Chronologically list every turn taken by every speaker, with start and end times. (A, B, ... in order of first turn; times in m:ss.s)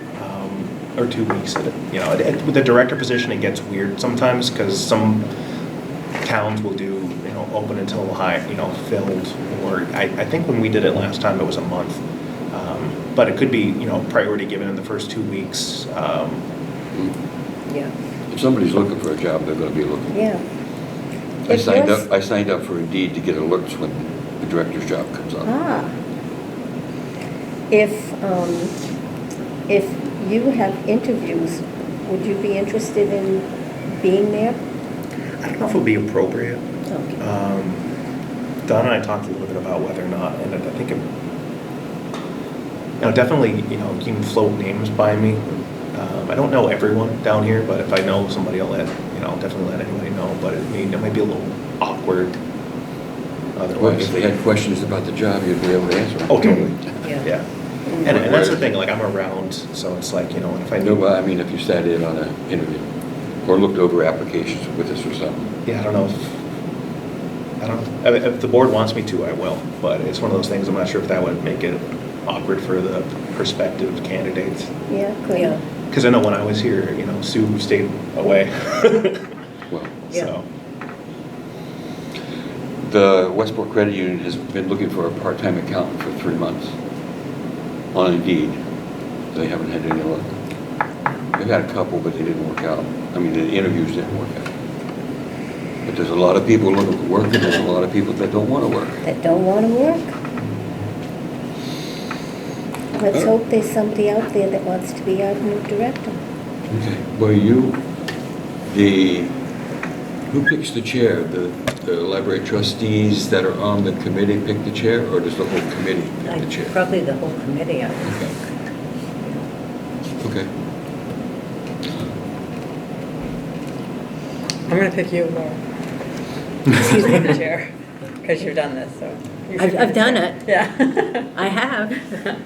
0:00.2-0:05.3 A
0:06.2-0:16.4 A
0:18.3-0:20.2 B
0:20.1-0:20.4 C
0:21.5-0:22.0 C
0:21.5-0:25.5 B
0:25.4-0:25.9 C
0:27.7-0:28.8 C
0:29.7-0:33.5 C
0:34.0-0:34.6 C
0:35.4-0:36.6 A
0:36.9-0:37.2 C
0:37.2-0:37.8 A
0:38.6-0:41.0 A
0:43.0-0:52.4 A
0:53.5-0:54.2 A
0:53.8-0:57.1 B
0:56.3-0:57.4 A
0:57.0-0:57.3 D
0:58.0-1:01.0 A
0:58.0-0:58.7 B
1:00.8-1:02.9 B
1:03.4-1:05.6 B
1:05.6-1:06.4 A
1:07.6-1:14.7 A
1:14.9-1:15.6 C
1:15.4-1:15.6 D
1:15.9-1:19.3 A
1:19.7-1:20.0 B
1:20.1-1:20.4 A
1:22.8-1:26.8 B
1:27.9-1:28.6 B
1:29.3-1:30.4 B
1:31.4-1:34.5 B
1:35.8-1:39.0 B
1:39.0-1:40.1 C
1:42.9-1:46.2 C
1:46.7-1:47.8 B
1:48.6-1:49.3 B
1:50.3-1:56.8 B
1:56.2-1:58.2 D
1:58.0-1:58.3 B
2:00.2-2:00.5 B
2:04.7-2:05.6 E
2:06.7-2:07.7 E
2:08.2-2:11.3 E
2:09.6-2:10.4 D
2:11.3-2:12.2 D